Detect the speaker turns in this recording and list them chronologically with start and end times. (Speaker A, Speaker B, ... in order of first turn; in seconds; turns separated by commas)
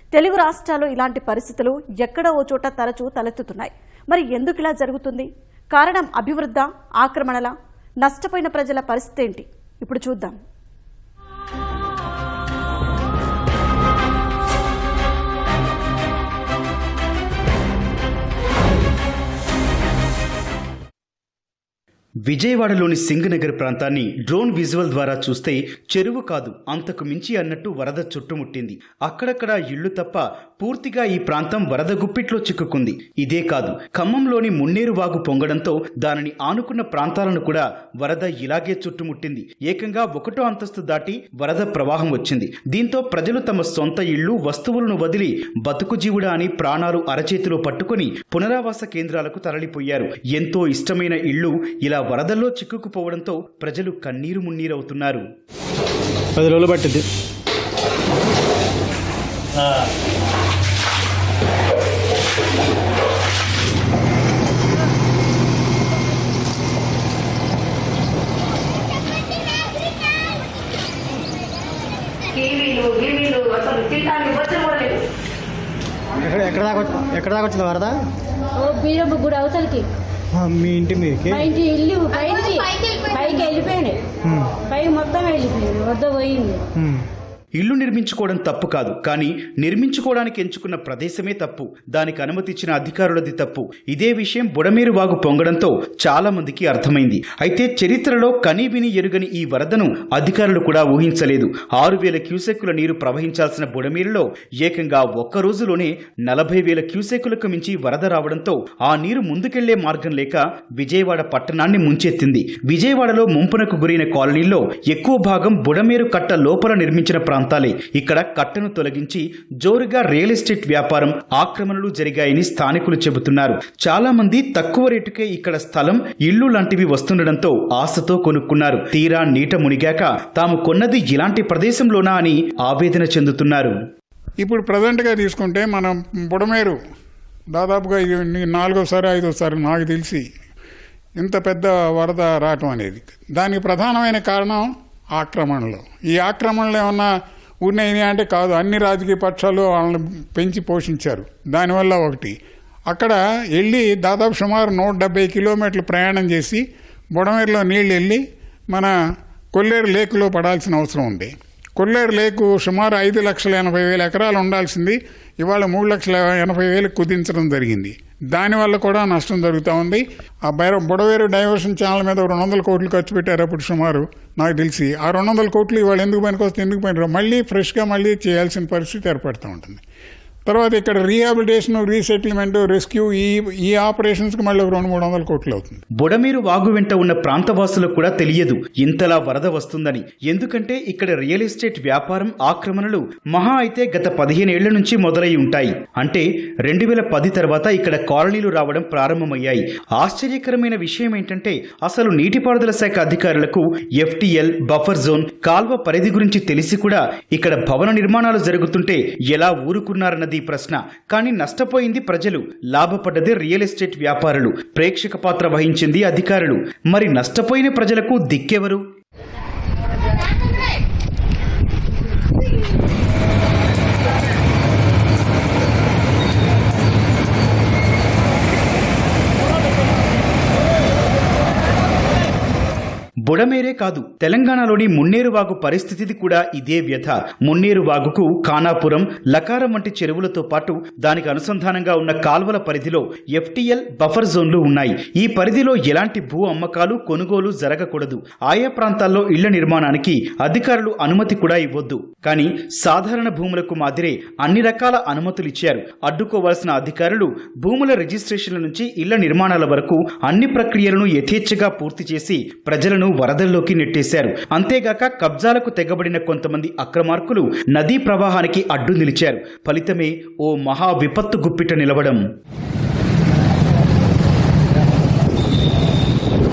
Speaker A: 0.1-10.4, Speaker B: 22.2-55.2, Speaker C: 56.4-57.0, Speaker D: 72.4-75.0, Speaker C: 76.2-77.9, Speaker E: 78.5-79.9, Speaker C: 80.3-81.4, Speaker E: 81.2-86.7, Speaker C: 84.3-84.5, Speaker B: 87.6-133.7, Speaker F: 134.4-136.8, Speaker F: 137.5-140.2, Speaker F: 141.2-147.1, Speaker F: 147.6-152.3, Speaker F: 152.9-156.6, Speaker F: 157.1-158.9, Speaker F: 159.5-179.8, Speaker F: 180.5-185.8, Speaker B: 186.0-218.8, Speaker B: 233.2-272.2